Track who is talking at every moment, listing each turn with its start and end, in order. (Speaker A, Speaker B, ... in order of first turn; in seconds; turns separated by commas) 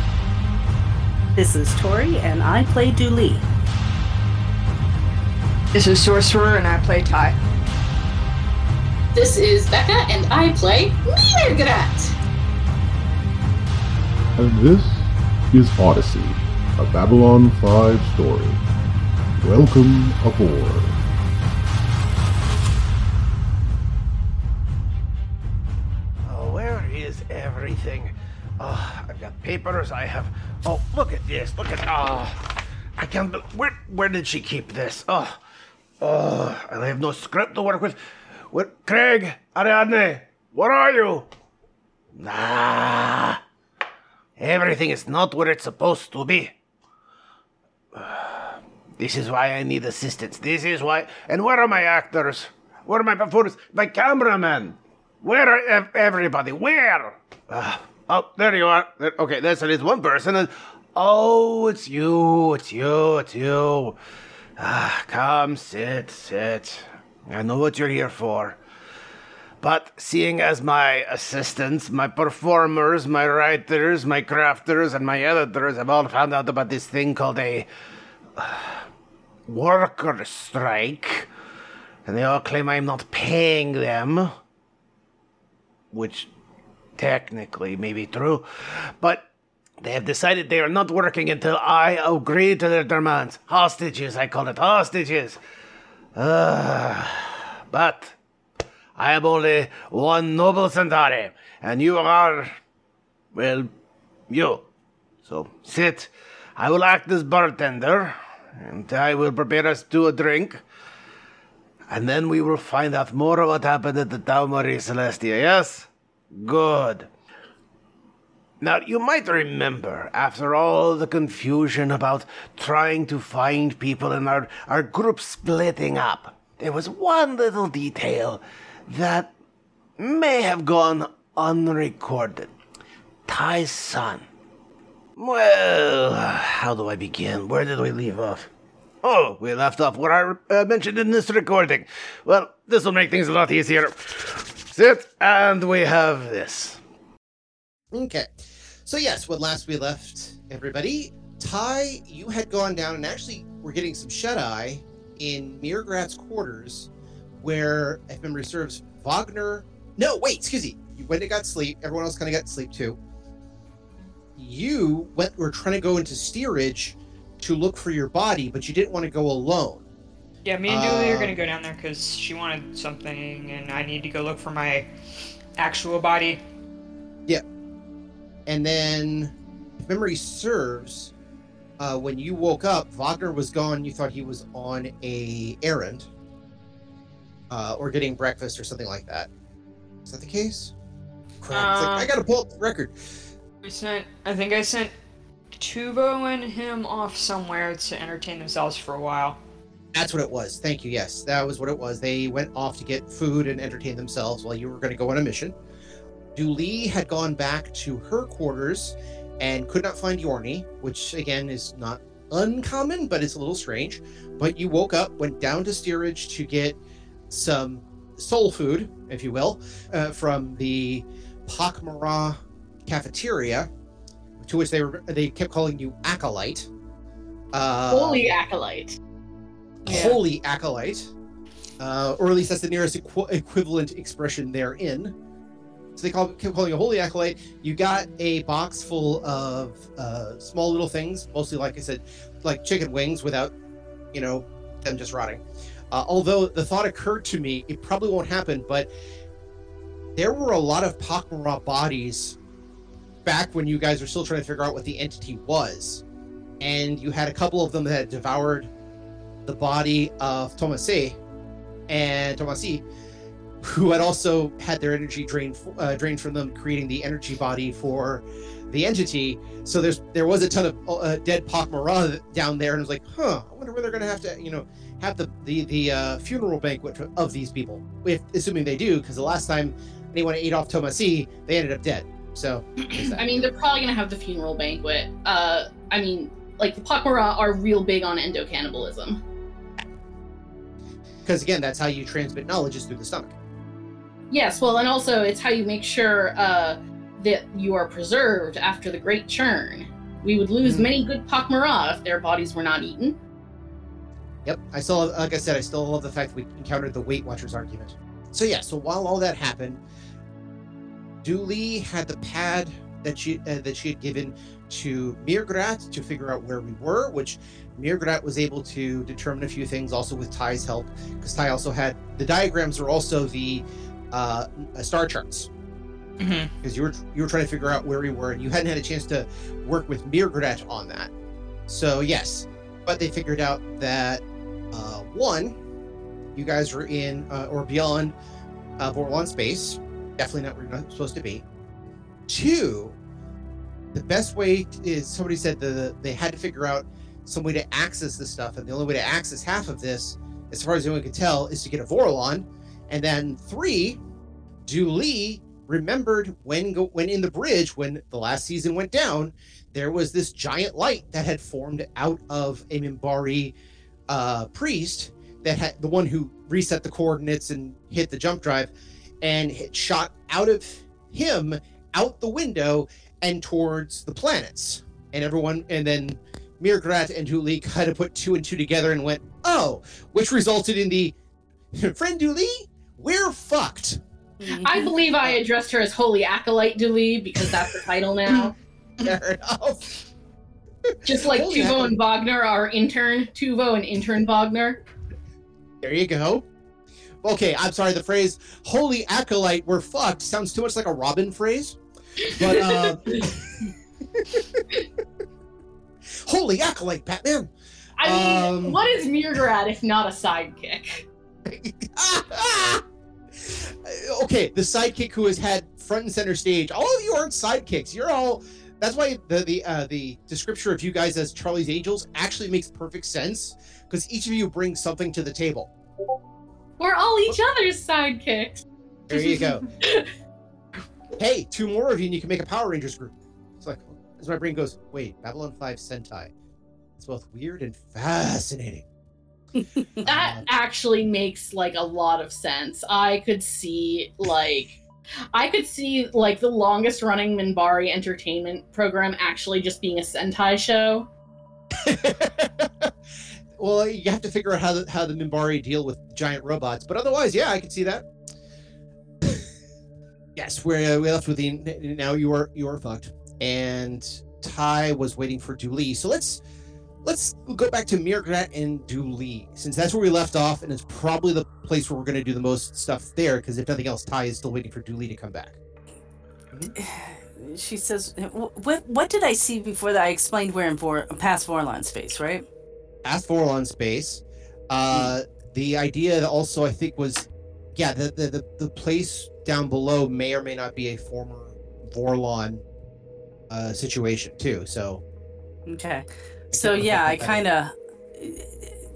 Speaker A: 1.4-3.5, Speaker B: 5.7-7.4, Speaker C: 9.1-12.2, Speaker D: 14.4-18.6, Speaker D: 19.4-21.0, Speaker E: 26.2-35.4, Speaker E: 36.0-41.3, Speaker E: 42.1-43.4, Speaker E: 44.4-46.5, Speaker E: 47.9-64.0, Speaker E: 64.6-68.6, Speaker E: 69.6-77.7, Speaker E: 78.4-78.8, Speaker E: 79.5-81.3, Speaker E: 82.0-84.3, Speaker E: 85.9-86.3, Speaker E: 87.0-89.2, Speaker E: 89.8-95.4, Speaker E: 96.1-98.2, Speaker E: 99.0-102.6, Speaker E: 103.3-103.7, Speaker E: 104.3-104.7, Speaker E: 105.2-110.6, Speaker E: 111.9-117.1, Speaker E: 118.6-129.3, Speaker E: 130.0-132.5, Speaker E: 133.3-134.3, Speaker E: 135.2-138.5, Speaker E: 139.0-146.8, Speaker F: 147.9-156.9, Speaker F: 157.4-163.0, Speaker F: 164.3-169.8, Speaker B: 170.4-174.8, Speaker F: 170.7-171.4, Speaker B: 175.6-176.4, Speaker F: 178.5-181.1, Speaker F: 181.8-186.1, Speaker F: 187.5-189.3, Speaker F: 190.0-190.7, Speaker F: 191.4-192.9, Speaker B: 191.7-192.1, Speaker B: 193.6-194.9, Speaker B: 195.5-199.4, Speaker F: 199.9-205.5, Speaker F: 206.3-216.8, Speaker F: 217.3-223.7, Speaker F: 224.4-226.7, Speaker F: 227.5-228.3, Speaker C: 227.9-229.0, Speaker F: 229.8-231.1, Speaker A: 229.9-230.2, Speaker F: 231.8-235.1, Speaker F: 235.9-243.5, Speaker F: 244.1-248.9, Speaker F: 250.2-252.4, Speaker F: 253.2-256.0, Speaker F: 256.6-258.7, Speaker F: 259.4-261.2, Speaker F: 261.9-262.8, Speaker F: 263.6-283.4, Speaker C: 282.9-289.2, Speaker F: 291.2-293.3, Speaker C: 294.3-303.2, Speaker F: 300.6-300.9, Speaker F: 304.4-309.8, Speaker F: 311.2-325.5, Speaker B: 326.2-326.5, Speaker F: 326.6-331.1, Speaker F: 331.7-335.6, Speaker F: 336.3-338.1, Speaker F: 338.8-341.4, Speaker F: 342.3-342.9, Speaker F: 343.9-354.0, Speaker F: 354.6-363.5, Speaker F: 364.1-381.1, Speaker F: 381.7-384.0, Speaker A: 384.4-384.9, Speaker C: 384.6-388.5, Speaker F: 389.0-389.9, Speaker F: 390.9-392.0, Speaker C: 391.1-394.8, Speaker F: 395.8-396.4, Speaker F: 397.2-403.5, Speaker C: 402.2-403.3, Speaker F: 404.1-404.6, Speaker F: 406.2-408.8, Speaker C: 408.0-411.1, Speaker F: 411.4-412.8, Speaker F: 413.3-425.7, Speaker C: 426.8-430.1, Speaker F: 429.1-429.6, Speaker F: 431.1-436.3, Speaker F: 437.0-438.8, Speaker F: 440.0-440.5, Speaker C: 440.0-444.8, Speaker C: 445.3-451.1, Speaker F: 451.8-452.9, Speaker F: 453.6-458.1, Speaker F: 460.4-466.4, Speaker F: 467.0-475.6, Speaker A: 476.8-482.4, Speaker F: 483.0-492.6, Speaker F: 493.5-495.0, Speaker A: 495.7-498.8, Speaker F: 496.5-497.4